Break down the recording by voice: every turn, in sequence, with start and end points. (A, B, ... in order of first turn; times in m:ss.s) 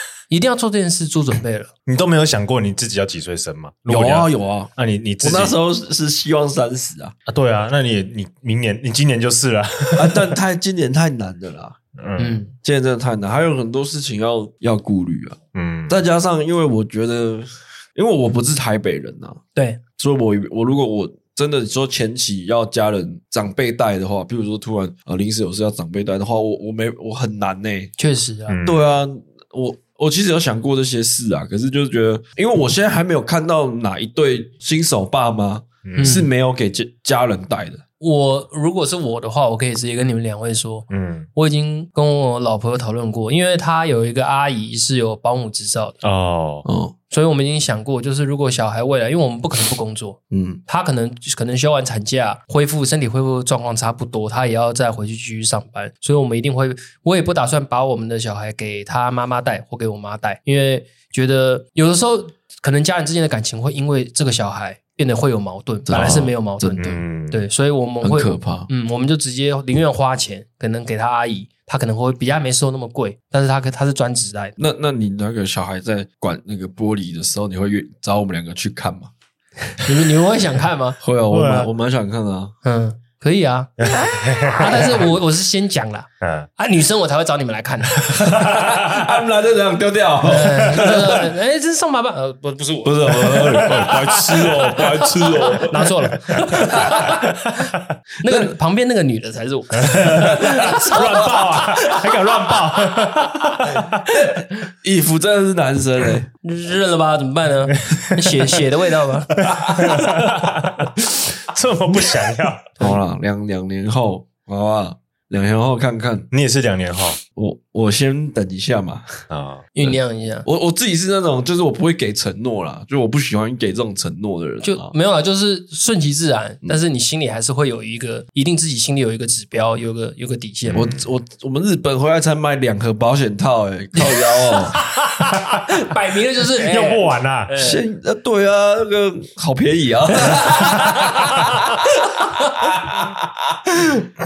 0:00.3-0:01.7 A
0:01.9-0:05.5 B
0:03.9-0:07.1 C
0:07.3-0:10.3 B
0:09.9-0:11.8 C
0:12.0-0:12.4 B
0:12.2-0:12.5 A
0:12.6-0:19.4 C
0:15.5-0:16.0 B
0:19.5-0:19.8 A
0:20.0-0:27.9 C
0:28.0-0:28.6 A
0:28.5-0:28.8 B
0:28.6-0:37.8 C
0:35.8-0:36.2 B
0:36.0-0:36.3 A
0:38.0-0:46.0 A
0:40.9-0:41.3 B
0:46.0-0:46.7 B
0:46.6-0:46.9 C
0:47.1-1:14.6 A
0:50.3-0:50.6 C
1:05.9-1:06.9 C
1:05.9-1:07.4 B
1:08.0-1:08.7 C
1:14.6-1:19.1 C
1:19.8-1:21.0 A
1:21.0-1:22.5 C
1:21.3-1:21.7 B
1:22.6-1:23.7 A
1:23.8-1:25.0 B
1:24.4-1:28.3 A
1:26.2-1:26.5 B
1:28.0-1:29.2 B
1:28.1-1:31.3 C
1:30.2-1:37.4 A
1:32.8-1:36.0 C
1:33.2-1:37.8 B
1:36.5-1:37.2 C
1:38.2-1:42.7 A
1:38.2-1:38.5 C
1:39.9-1:44.1 B
1:40.0-1:41.2 C
1:44.1-1:44.4 A
1:44.4-1:46.3 C
1:46.4-1:50.2 A
1:47.9-1:48.4 B
1:49.4-1:52.8 B
1:49.5-1:50.0 C
1:52.8-1:56.3 C
1:56.3-1:57.2 B
1:57.4-1:59.2 C
1:59.3-1:59.6 B
1:59.7-2:00.4 A
1:59.8-2:04.9 C
2:04.6-2:10.9 A
2:10.7-2:11.0 B
2:10.7-2:14.8 C
2:14.0-2:14.8 A
2:15.2-2:15.6 B
2:15.6-2:17.8 A
2:16.5-2:17.5 B
2:17.6-2:24.1 C
2:20.3-2:21.4 A
2:22.2-2:22.6 A